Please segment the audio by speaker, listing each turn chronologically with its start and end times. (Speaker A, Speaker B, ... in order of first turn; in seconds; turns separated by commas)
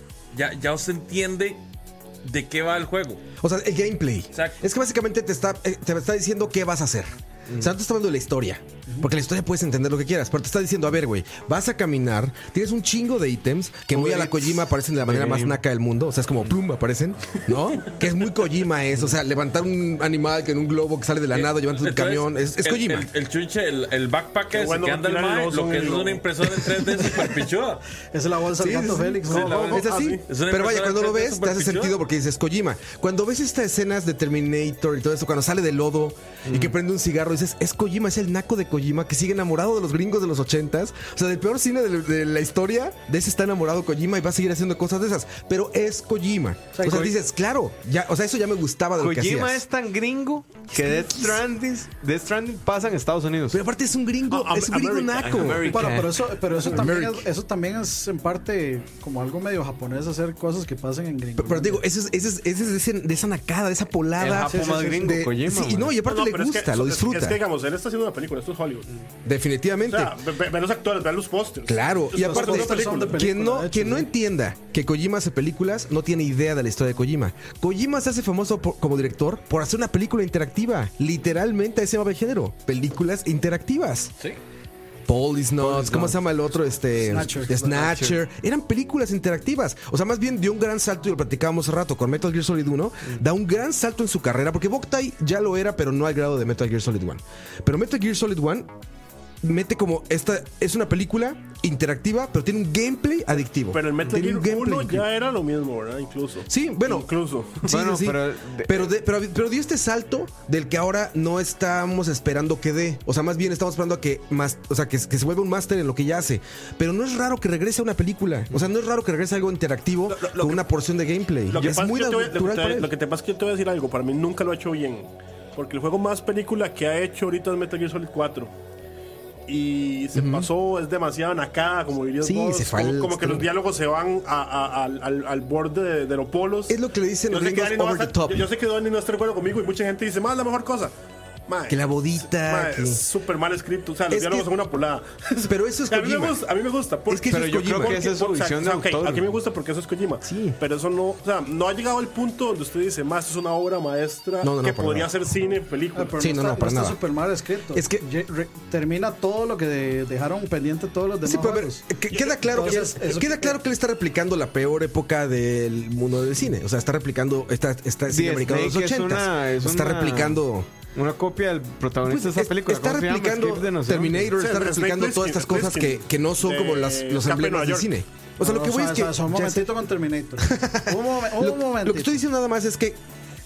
Speaker A: 0.3-1.6, Speaker A: 2.2-3.2, Speaker B: 3.4-23.1, Speaker A: 4.3-4.6, Speaker C: 13.9-15.6, Speaker A: 21.3-27.9, Speaker D: 24.5-26.2, Speaker E: 28.1-29.8, Speaker B: 28.6-49.6, Speaker A: 29.3-32.0, Speaker D: 29.3-30.3, Speaker C: 36.5-36.8, Speaker E: 46.7-47.1, Speaker C: 49.0-53.6, Speaker B: 50.8-51.3, Speaker B: 53.5-55.9, Speaker D: 54.3-55.9, Speaker C: 55.2-56.2, Speaker E: 55.7-61.8, Speaker B: 56.6-57.3, Speaker B: 61.4-67.4, Speaker C: 64.2-66.0, Speaker E: 64.5-65.2, Speaker D: 66.0-68.9, Speaker B: 69.2-70.2, Speaker D: 69.8-73.2, Speaker B: 71.7-84.1, Speaker E: 72.2-74.1, Speaker B: 85.1-98.7, Speaker C: 85.6-86.2, Speaker E: 87.0-87.7, Speaker C: 87.5-88.2, Speaker B: 99.4-105.1, Speaker D: 103.7-107.7, Speaker B: 106.5-107.1, Speaker B: 107.6-122.9, Speaker C: 107.7-108.9, Speaker D: 120.1-120.6, Speaker D: 121.5-128.5, Speaker D: 129.5-136.8, Speaker B: 130.2-130.5, Speaker B: 132.2-133.5, Speaker B: 136.7-138.5, Speaker D: 137.3-140.9, Speaker D: 141.5-156.3, Speaker B: 141.7-143.0, Speaker B: 144.1-144.5, Speaker B: 145.4-146.4, Speaker B: 147.1-148.1, Speaker C: 147.3-149.3, Speaker B: 150.2-150.6, Speaker B: 154.4-155.2, Speaker E: 155.9-161.9, Speaker B: 156.2-157.0, Speaker B: 157.7-158.0, Speaker B: 161.2-170.7, Speaker E: 162.4-163.6, Speaker C: 168.1-170.4, Speaker C: 170.9-174.3, Speaker B: 172.0-179.7, Speaker D: 174.4-177.9, Speaker E: 178.4-182.2, Speaker B: 180.4-183.0